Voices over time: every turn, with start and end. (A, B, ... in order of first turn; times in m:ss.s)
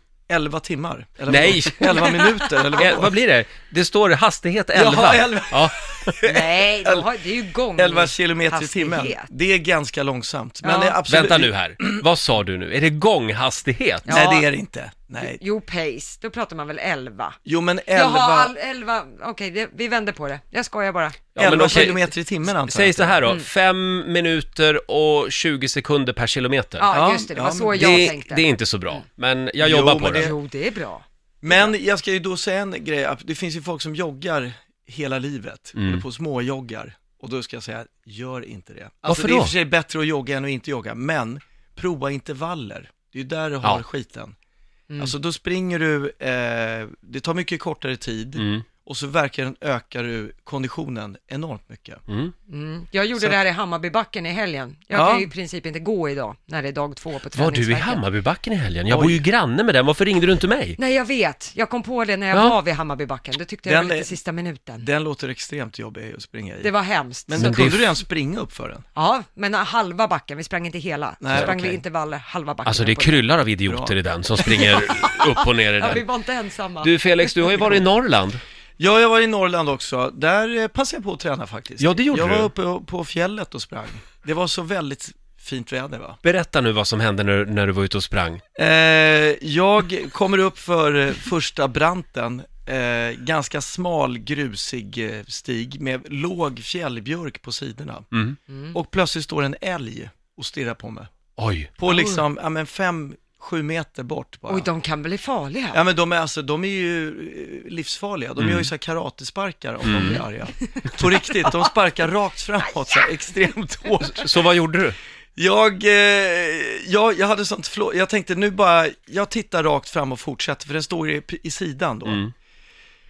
0:00.3-0:03.1 A
0:01.3-0:02.2 B
0:01.8-0:02.4 C
0:02.8-0:05.8 B
0:04.7-0:07.1 A
0:06.2-0:09.3 C
0:07.8-0:12.0 A
0:10.6-0:11.0 C
0:11.1-0:14.2 B
0:14.1-0:14.5 C
0:14.1-0:15.4 A
0:15.2-0:17.4 C
0:17.4-0:18.5 A
0:17.9-0:21.6 C
0:21.4-0:26.9 B
0:21.4-0:23.3 A
0:26.8-0:29.0 C
0:26.9-0:28.2 A
0:27.7-0:30.3 B
0:29.6-0:30.4 A
0:30.1-0:31.7 C
0:31.4-0:44.4 A
0:35.8-0:36.0 B
0:39.0-0:39.5 B
0:45.0-0:52.0 A
0:48.4-0:48.7 B
0:52.5-0:58.0 C
0:54.9-0:55.3 A
0:57.3-1:00.8 B
0:58.9-0:59.2 A
1:00.8-1:04.9 C
1:03.7-1:04.2 A
1:04.8-1:06.7 A
1:06.6-1:07.8 C
1:07.3-1:08.8 A
1:07.4-1:07.8 B
1:09.0-1:13.3 C
1:11.2-1:11.8 A
1:12.7-1:16.0 B
1:13.7-1:14.0 A
1:14.4-1:17.8 C
1:16.8-1:18.4 B
1:18.8-1:26.2 A
1:21.8-1:22.5 B
1:26.2-1:28.4 B
1:28.6-1:38.1 A
1:38.5-1:38.8 C
1:38.7-1:41.1 A
1:41.4-1:41.7 B
1:41.8-1:44.7 A
1:41.9-1:42.2 C
1:44.5-1:45.8 C
1:45.7-1:54.3 A
1:48.4-1:48.7 B
1:49.8-1:50.2 B
1:49.9-1:51.7 C
1:54.0-1:55.0 B
1:55.4-2:02.2 A
2:02.0-2:02.3 B